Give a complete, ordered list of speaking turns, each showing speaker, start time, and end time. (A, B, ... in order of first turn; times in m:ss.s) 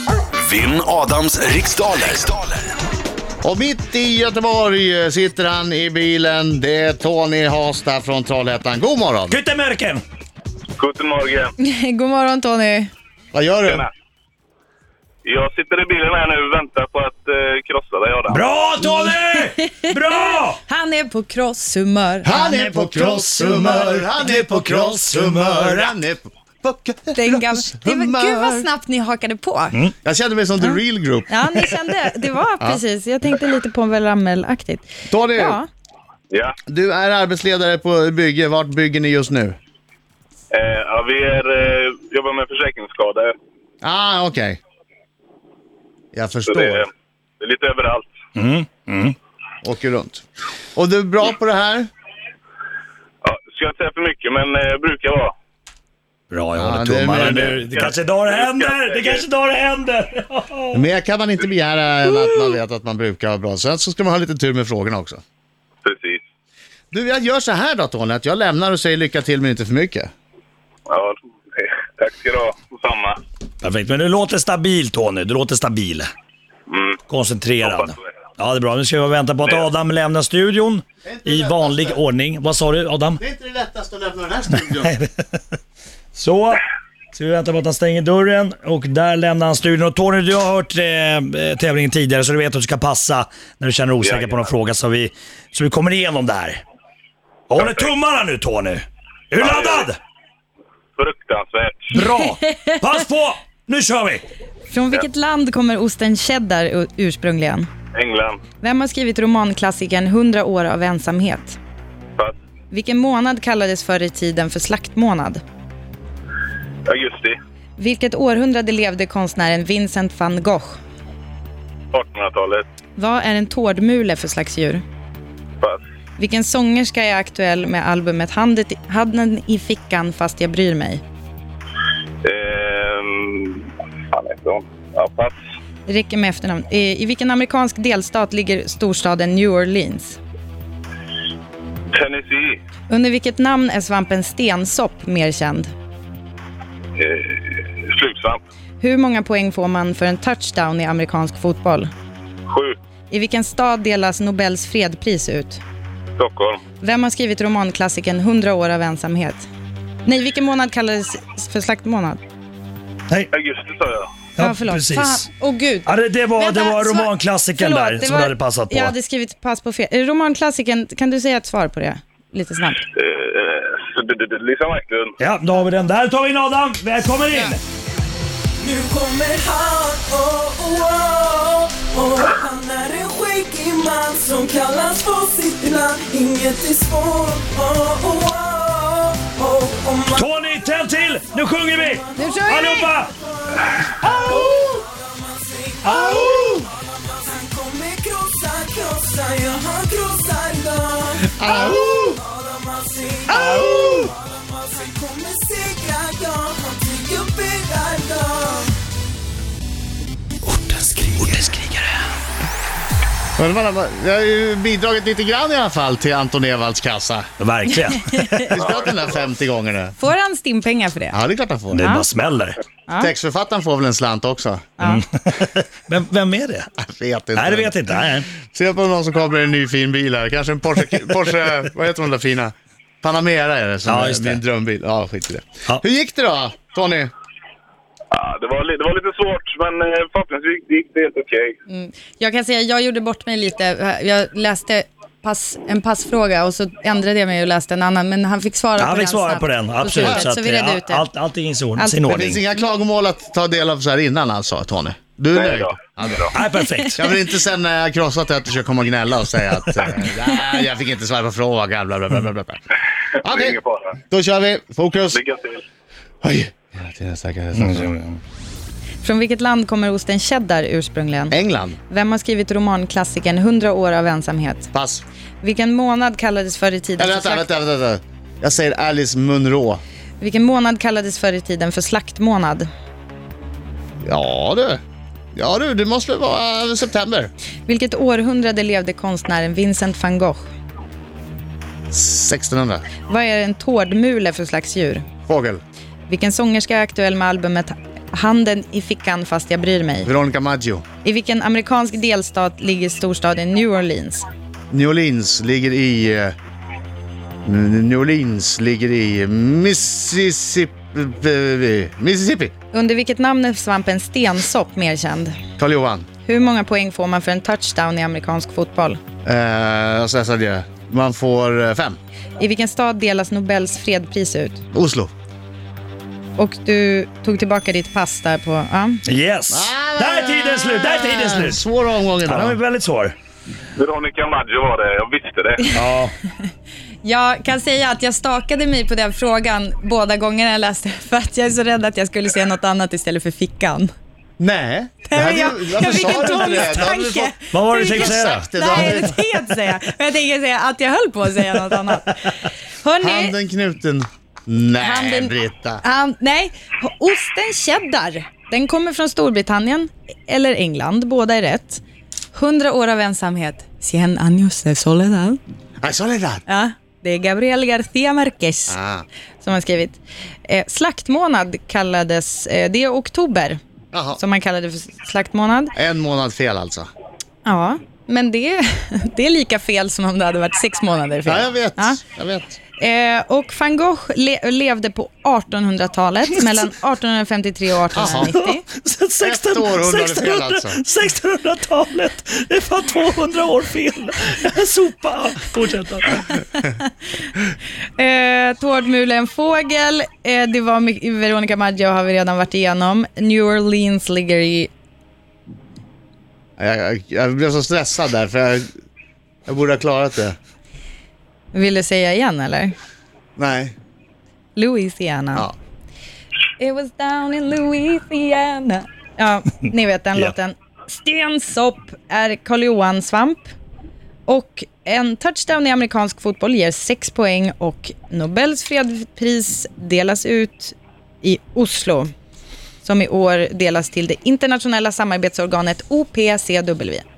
0:00.4-0:02.6 A
0:03.4-0:09.4 B
0:09.3-0:10.0 C
0:10.8-0:11.5 D
0:11.6-0:12.9 E
0:13.3-0:13.8 B
0:13.6-0:13.9 D
0:15.2-0:18.4 D
0:18.3-0:20.6 C
0:18.8-0:23.8 E
0:22.2-0:28.7 B
0:22.9-0:25.9 C
0:27.1-0:29.8 E
0:30.0-0:31.7 B
0:30.6-0:35.7 E
0:35.1-0:35.6 B
0:36.3-0:36.6 D
0:36.7-0:39.6 B
0:40.5-0:43.3 D
0:43.8-0:44.6 B
0:46.1-0:46.8 B
0:46.5-0:46.9 D
0:47.4-0:48.1 D
0:48.4-0:49.2 C
0:49.6-0:50.2 B
0:50.8-0:51.9 B
0:53.2-0:55.3 D
0:56.3-1:00.8 C
0:56.6-0:57.8 B
0:57.7-0:59.2 D
1:00.7-1:05.2 B
1:05.8-1:06.2 D
1:06.9-1:10.1 B
1:10.9-1:13.2 D
1:13.6-1:16.1 C
1:16.7-1:17.0 D
1:17.1-1:23.2 C
1:17.6-1:18.1 D
1:21.1-1:22.0 B
1:23.2-1:24.9 B
1:24.8-1:25.4 C
1:26.1-1:36.6 C
1:34.0-1:34.5 D
1:37.5-1:40.0 C
1:37.6-1:37.9 D
1:39.4-1:39.9 D
1:41.0-1:41.9 D
1:41.9-1:44.2 C
1:42.0-1:42.9 E
1:44.7-1:47.7 E
1:48.0-1:48.4 D
1:48.6-1:51.6 E
1:52.7-1:55.4 E
1:56.9-1:57.4 D
1:57.8-2:00.8 E
2:01.9-2:02.7 D
2:03.0-2:04.8 E
2:06.2-2:11.0 E
2:12.2-2:15.4 D
2:15.9-2:20.2 E
2:21.9-2:22.6 D
2:22.9-2:25.7 E
2:27.0-2:28.4 D
2:28.8-2:31.9 E
2:32.5-2:32.8 D
2:33.1-2:35.6 E
2:36.2-2:36.6 D
2:36.8-2:39.5 E
2:40.0-2:42.2 E
2:43.3-2:44.1 D
2:44.4-2:45.2 C
2:44.4-2:52.8 E
2:45.8-2:48.9 C
2:52.9-2:55.2 D
2:55.2-2:57.6 C
2:58.6-3:10.2 F
3:10.1-3:13.1 C
3:11.6-3:12.4 F
3:12.2-3:12.9 E
3:14.0-3:14.5 E
3:14.1-3:23.3 F
3:15.9-3:16.1 C
3:15.9-3:16.6 B
3:21.2-3:22.2 B
3:23.3-3:24.1 C
3:23.3-3:24.1 B
3:24.2-3:28.7 F
3:30.5-3:31.9 C
3:33.4-3:37.3 B
3:37.4-3:38.5 C
3:38.1-3:38.5 E
3:38.5-3:39.9 B
3:38.6-3:38.9 D
3:40.0-3:41.2 E
3:41.1-3:41.9 B
3:41.7-3:42.6 C
3:41.8-3:42.1 E
3:43.0-3:44.7 B
3:44.8-3:46.7 C
3:46.8-3:47.8 B
3:47.4-3:48.3 C
3:48.4-3:57.1 B
3:53.8-3:54.4 C
3:58.1-4:01.5 D
4:01.7-4:11.1 E
4:08.8-4:12.4 C
4:11.8-4:12.0 E
4:12.1-4:16.3 B
4:15.3-4:16.3 D
4:16.3-4:17.1 C
4:16.9-4:22.6 B
4:23.2-4:23.9 D
4:23.2-4:23.6 B
4:24.1-4:25.2 B
4:25.1-4:25.6 D
4:26.2-4:27.9 B
4:27.6-4:28.2 C
4:29.0-4:31.3 E
4:31.3-4:31.8 B
4:31.9-4:34.7 E
4:34.7-4:35.0 B
4:35.4-4:37.5 E
4:37.0-4:39.8 B
4:40.2-4:42.7 E
4:44.0-4:44.8 B
4:45.3-4:47.3 B
4:47.7-4:50.4 E
4:51.9-4:52.8 B
4:53.1-4:55.0 E
4:55.3-4:55.6 B
4:56.1-5:00.1 E
5:00.0-5:00.8 B
5:01.0-5:04.2 E
5:04.7-5:06.3 B
5:07.4-5:12.5 B
5:12.7-5:15.3 E
5:15.6-5:16.1 B
5:16.2-5:19.0 E
5:19.2-5:22.0 B
5:22.4-5:24.6 E
5:24.7-5:25.1 B
5:26.4-5:29.0 E
5:29.0-5:31.6 C
5:29.5-5:32.6 B
5:32.2-5:33.1 C
5:33.8-5:35.7 D
5:35.7-5:36.1 C
5:37.0-5:43.9 E
5:44.4-5:49.2 B
5:45.0-5:53.3 E
5:47.5-5:48.5 C
5:53.0-5:55.8 B
5:54.8-6:01.8 E
6:02.3-6:05.4 E
6:05.8-6:06.4 B
6:06.5-6:08.8 E
6:08.7-6:09.1 B
6:09.4-6:13.6 E
6:13.9-6:14.2 B
6:14.2-6:15.7 E
6:15.8-6:16.9 B
6:17.4-6:22.0 E
6:21.2-6:22.6 B
6:22.8-6:28.6 E
6:27.9-6:28.3 B
6:28.3-6:36.4 C
6:29.2-6:30.8 B
6:38.0-6:44.7 E
6:46.6-6:48.7 B
6:49.4-6:50.4 B
6:51.5-6:52.7 E
6:53.4-6:53.8 B
6:54.5-6:55.5 E
6:56.6-7:03.5 E
7:04.3-7:12.1 E
7:12.8-7:17.0 E